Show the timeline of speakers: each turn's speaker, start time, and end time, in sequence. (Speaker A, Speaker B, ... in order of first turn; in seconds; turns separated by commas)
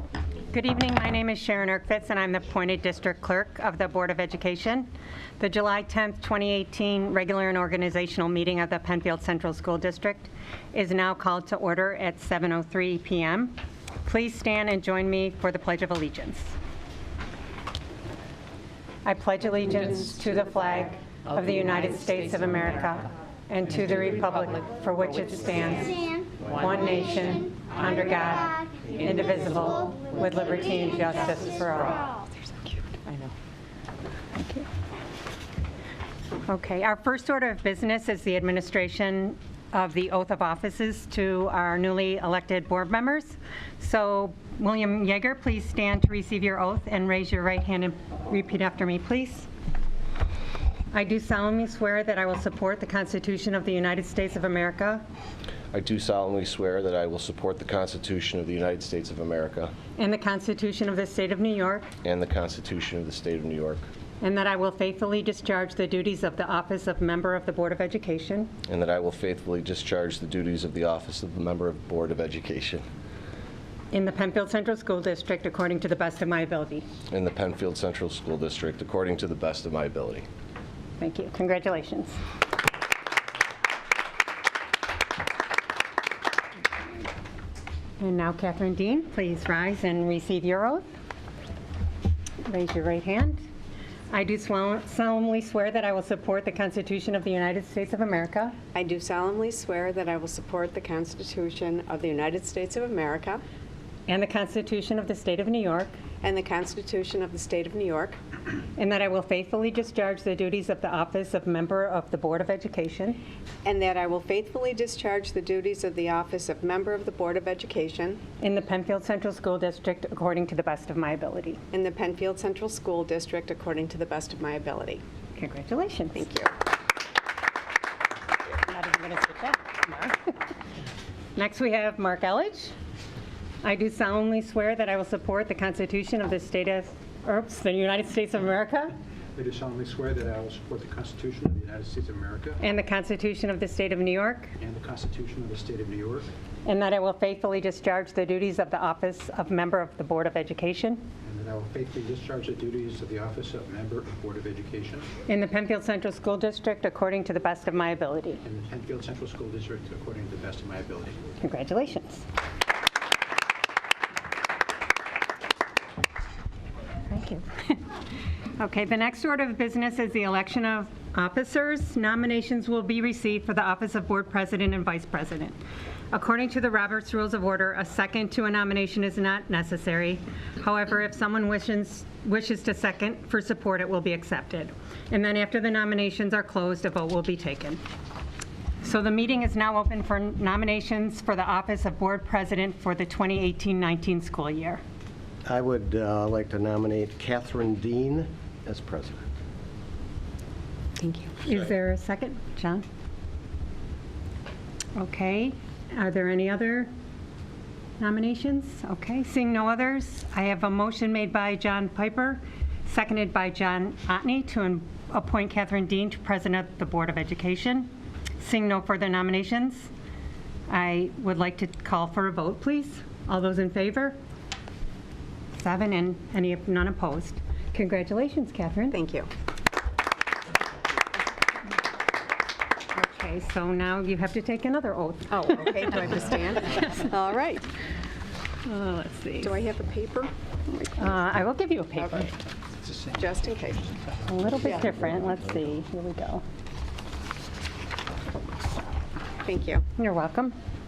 Speaker A: 0.5-4.9, Speaker A: 5.4-16.6, Speaker A: 19.1-32.1, Speaker A: 34.4-34.7, Speaker A: 36.5-49.5, Speaker A: 50.9-55.0, Speaker B: 55.7-59.7, Speaker A: 60.0-61.9, Speaker B: 62.0-63.8, Speaker A: 64.2-68.5, Speaker B: 68.7-72.8, Speaker A: 73.9-76.9, Speaker B: 77.1-80.2, Speaker A: 81.0-82.2, Speaker A: 88.0-90.8, Speaker A: 92.4-93.4, Speaker A: 94.1-98.5, Speaker C: 98.8-103.4, Speaker A: 104.1-106.0, Speaker C: 106.2-108.2, Speaker A: 108.8-113.2, Speaker C: 113.6-118.2, Speaker A: 118.4-121.6, Speaker C: 121.7-125.0, Speaker A: 125.4-126.3, Speaker C: 126.2-126.5, Speaker A: 128.6-130.3, Speaker A: 131.4-132.7, Speaker A: 133.6-139.0, Speaker D: 139.3-142.6, Speaker A: 142.6-144.5, Speaker D: 144.6-146.3, Speaker A: 146.7-151.0, Speaker D: 151.2-155.1, Speaker A: 155.3-158.4, Speaker D: 158.4-161.2, Speaker A: 161.4-162.2, Speaker A: 167.1-167.8, Speaker A: 168.6-175.6, Speaker A: 176.1-187.8, Speaker A: 188.8-194.8, Speaker E: 195.5-199.2, Speaker C: 201.0-201.4, Speaker A: 201.4-202.9, Speaker A: 204.9-206.9, Speaker A: 208.0-219.9, Speaker A: 220.7-224.2, Speaker A: 225.6-229.0, Speaker C: 228.9-229.3, Speaker A: 232.9-235.6, Speaker C: 235.3-237.7, Speaker A: 238.6-239.5, Speaker C: 239.4-241.2, Speaker A: 241.0-242.3, Speaker C: 242.0-242.3, Speaker D: 242.7-244.3, Speaker C: 243.2-243.9, Speaker A: 244.3-246.4, Speaker C: 249.4-249.8, Speaker A: 250.0-250.5